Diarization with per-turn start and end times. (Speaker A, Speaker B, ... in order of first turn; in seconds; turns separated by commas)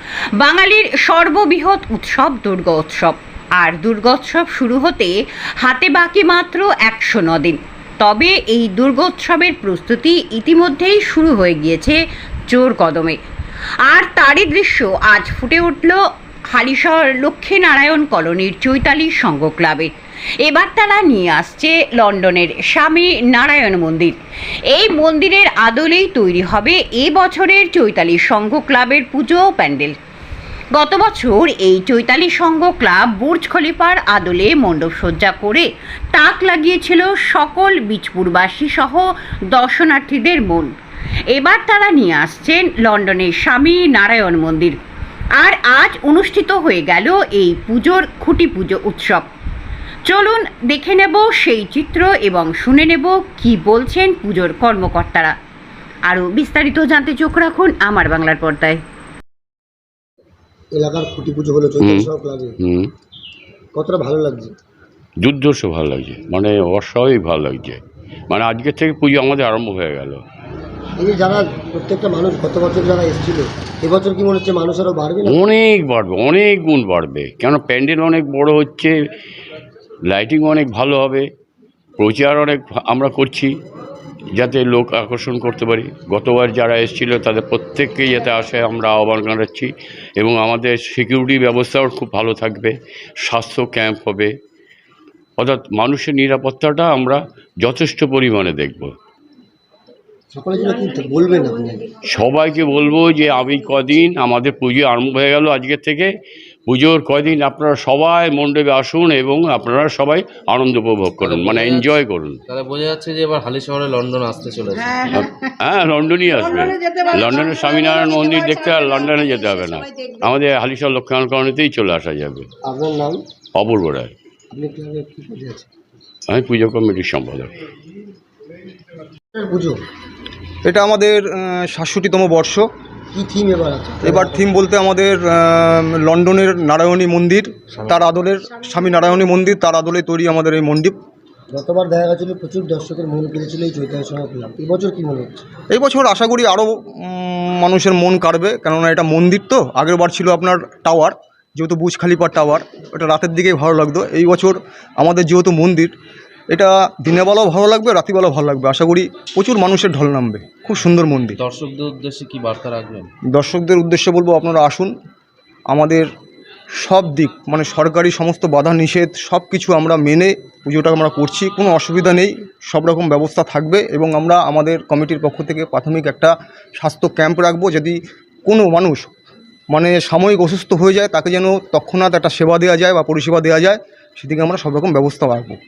Speaker A: 0.4-13.2, Speaker A: 13.8-19.9, Speaker A: 20.4-24.2, Speaker A: 24.7-29.9, Speaker A: 30.8-40.7, Speaker A: 41.3-44.8, Speaker A: 45.4-49.3, Speaker A: 50.1-55.3, Speaker A: 56.1-58.8, Speaker B: 60.7-62.5, Speaker C: 61.8-62.1, Speaker C: 62.6-62.9, Speaker B: 63.8-64.5, Speaker C: 65.2-70.2, Speaker B: 71.0-75.5, Speaker C: 75.2-78.9, Speaker C: 80.1-81.3, Speaker C: 82.0-83.5, Speaker C: 84.4-92.7, Speaker C: 93.2-94.3, Speaker C: 95.4-98.9, Speaker B: 100.3-101.9, Speaker C: 102.1-106.1, Speaker C: 106.7-112.4, Speaker D: 111.2-115.3, Speaker C: 115.1-122.5, Speaker B: 122.6-123.2, Speaker C: 123.6-124.1, Speaker B: 124.5-125.7, Speaker C: 126.3-127.5, Speaker B: 129.3-129.8, Speaker E: 130.7-132.7, Speaker B: 133.1-134.4, Speaker E: 134.0-141.0, Speaker B: 141.5-145.4, Speaker E: 145.7-155.9, Speaker E: 156.5-161.4, Speaker D: 161.4-163.1, Speaker E: 163.3-164.9, Speaker E: 165.7-166.1, Speaker E: 166.8-179.1, Speaker E: 179.7-185.6